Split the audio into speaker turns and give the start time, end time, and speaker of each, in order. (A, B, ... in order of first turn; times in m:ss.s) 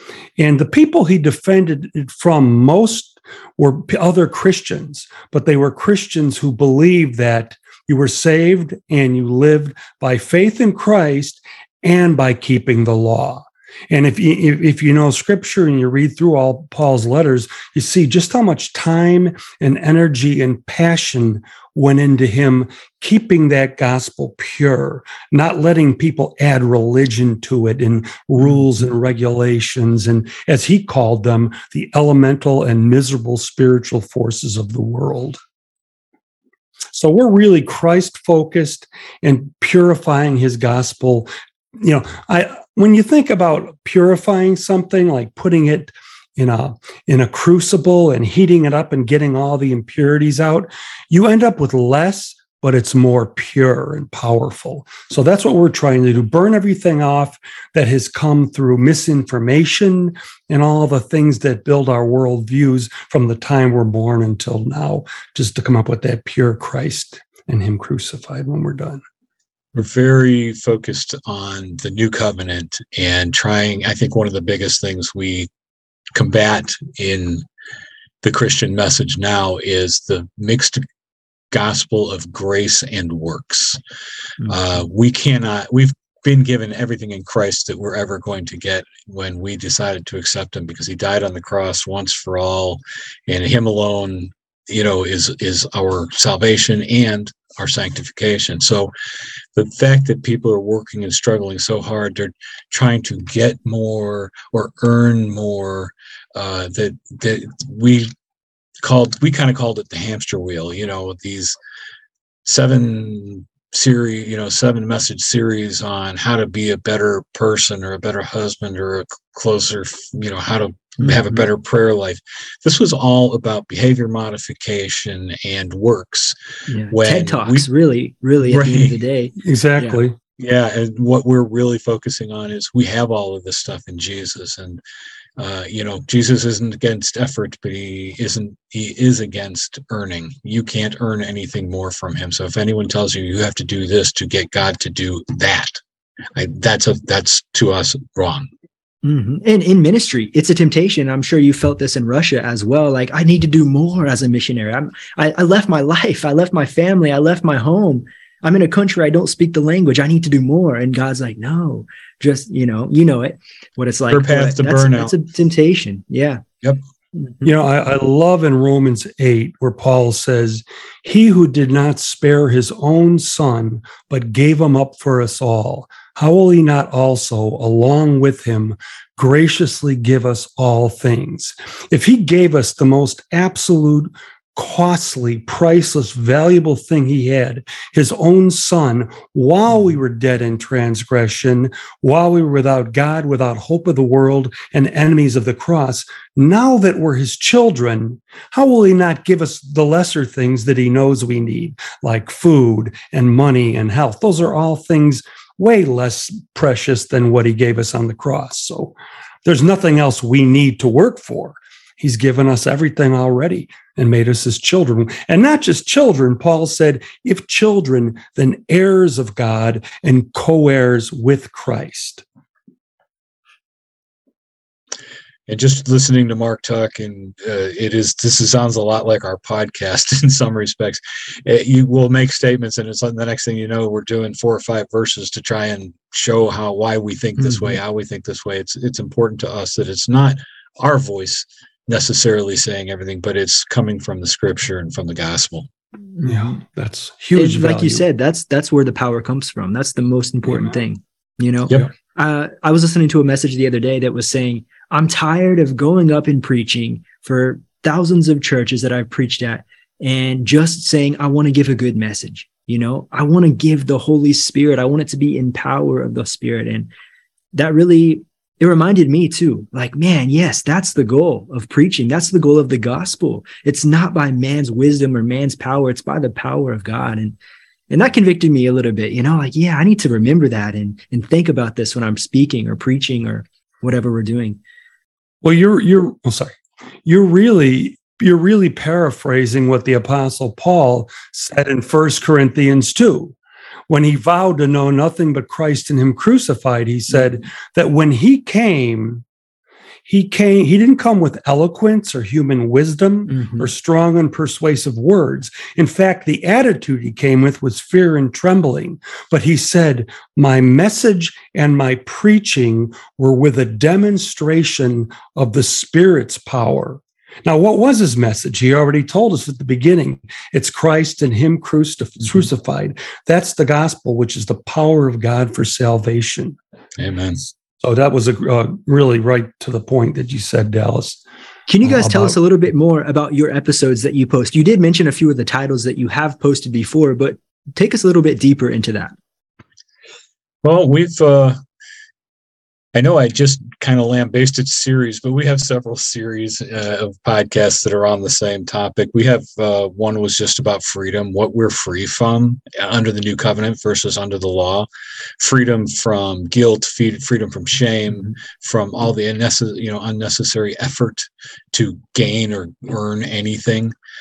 0:00.4-0:35.4 A
0:36.9-1:09.0 A
1:09.7-1:15.5 B
1:16.1-1:17.4 B
1:18.2-1:20.8 B
1:21.5-1:23.8 B
1:24.4-1:38.9 B
1:39.5-1:48.1 B
1:48.8-1:51.5 B
1:52.4-2:06.4 B
2:01.0-2:01.4 C
2:06.7-2:10.0 C
2:06.9-2:07.7 B
2:08.5-2:09.0 B
2:09.4-2:10.2 A
2:10.4-2:14.8 B
2:15.4-2:25.8 B
2:26.4-2:28.5 B
2:29.0-2:46.4 C
2:44.1-2:45.1 B
2:47.4-3:42.2 A
3:45.5-4:05.7 B
4:06.2-4:06.6 C
4:06.2-4:08.0 A
4:07.3-4:26.9 C
4:27.5-4:37.4 C
4:37.9-4:44.6 C
4:45.4-4:53.3 A
4:53.9-4:59.2 A
5:00.0-5:26.6 A
5:03.3-5:03.7 C
5:27.0-5:27.4 B
5:27.8-5:31.2 A
5:31.7-5:39.1 C
5:31.8-5:32.4 A
5:40.6-5:41.6 B
5:42.9-5:54.9 B
5:55.4-6:03.9 B